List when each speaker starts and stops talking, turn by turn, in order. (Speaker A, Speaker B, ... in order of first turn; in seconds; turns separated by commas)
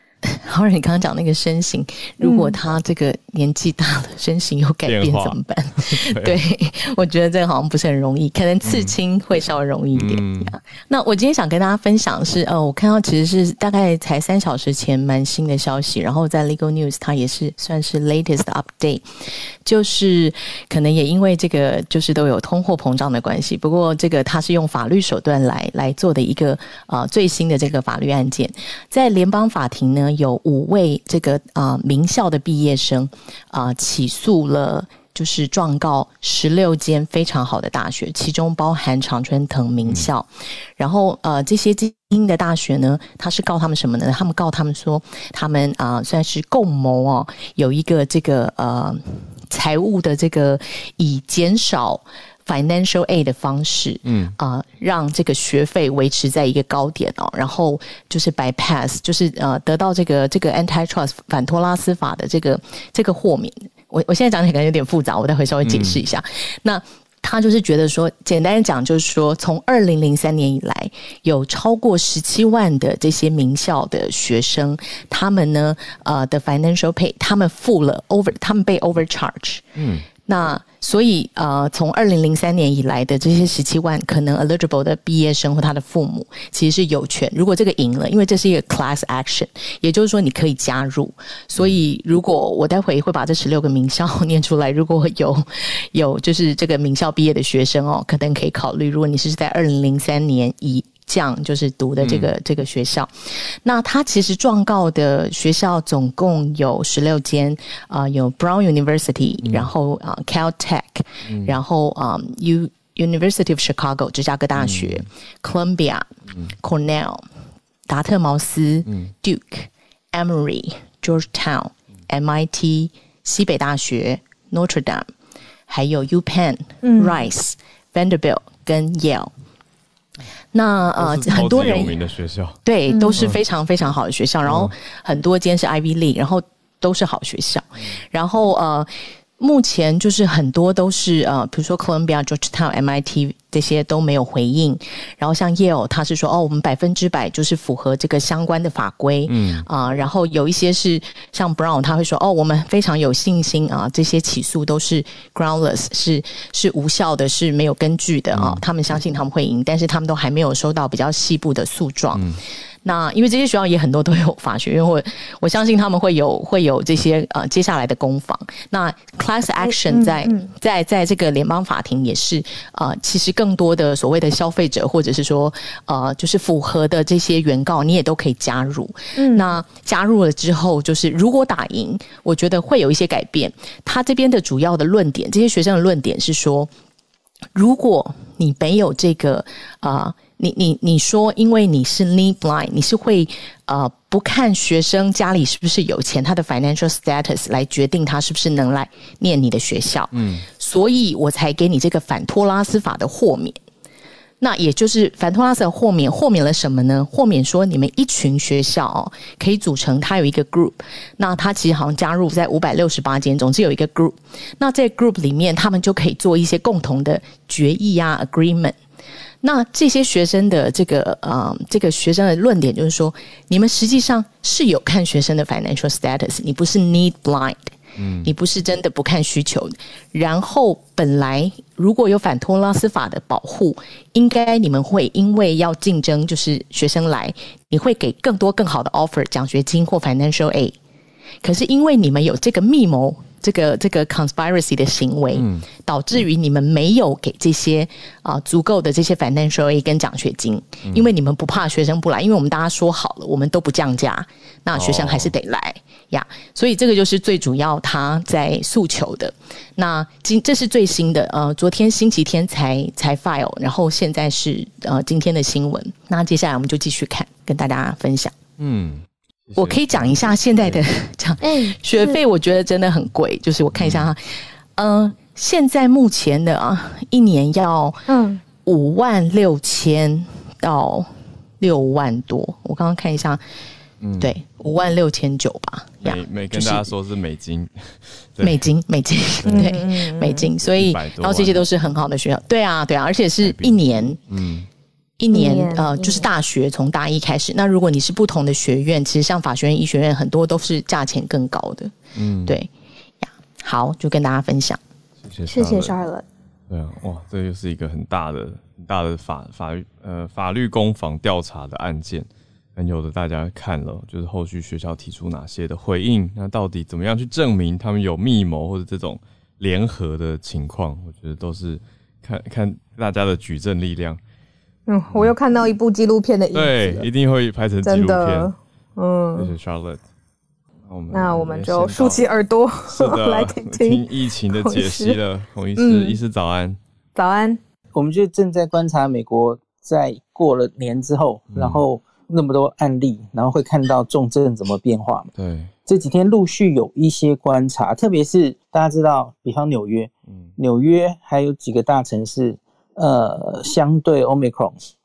Speaker A: 0.2-79.6, Speaker B: 2.2-2.6, Speaker C: 4.8-6.3, Speaker C: 8.6-9.0, Speaker C: 9.9-10.6, Speaker C: 54.0-54.3, Speaker C: 65.6-66.0, Speaker C: 79.8-80.0, Speaker A: 80.2-117.2, Speaker C: 102.0-102.3, Speaker C: 109.4-109.7, Speaker C: 111.2-111.5, Speaker C: 114.5-115.1, Speaker A: 117.9-125.1, Speaker C: 118.9-119.1, Speaker A: 125.7-129.3, Speaker B: 126.8-127.2, Speaker A: 130.5-131.9, Speaker C: 131.0-132.6, Speaker A: 132.6-162.3, Speaker B: 132.9-133.2, Speaker C: 134.4-134.7, Speaker C: 149.3-149.6, Speaker C: 158.3-158.6, Speaker C: 162.1-162.4, Speaker A: 162.8-186.7, Speaker B: 169.6-170.5, Speaker B: 179.2-179.6, Speaker A: 187.5-203.6, Speaker C: 200.1-200.5, Speaker A: 204.4-218.7, Speaker A: 219.4-240.8, Speaker C: 228.0-228.3, Speaker A: 241.4-268.3, Speaker C: 245.3-245.7, Speaker C: 250.8-251.1, Speaker C: 254.7-255.3, Speaker C: 268.6-270.8, Speaker A: 269.6-274.2, Speaker B: 271.4-272.2, Speaker C: 273.8-274.1, Speaker A: 274.8-278.0, Speaker B: 278.1-278.4, Speaker A: 278.6-283.4, Speaker C: 284.0-284.3, Speaker A: 284.2-286.9, Speaker C: 286.0-288.6, Speaker A: 288.4-294.2, Speaker C: 289.4-289.7, Speaker B: 289.4-290.5, Speaker C: 290.6-291.6, Speaker C: 293.4-294.7, Speaker A: 295.2-301.9, Speaker B: 295.3-296.2, Speaker C: 302.1-302.6, Speaker A: 303.2-304.8, Speaker C: 305.2-305.9, Speaker B: 305.5-306.2, Speaker C: 306.7-324.2, Speaker B: 324.9-327.1, Speaker C: 326.5-328.5, Speaker B: 327.8-329.5, Speaker C: 329.4-330.0, Speaker C: 330.9-332.2, Speaker B: 331.1-335.2, Speaker C: 332.9-336.8, Speaker B: 335.8-336.1, Speaker B: 337.1-337.6, Speaker D: 337.9-345.3, Speaker C: 341.5-341.8, Speaker C: 345.3-345.7, Speaker D: 345.9-354.8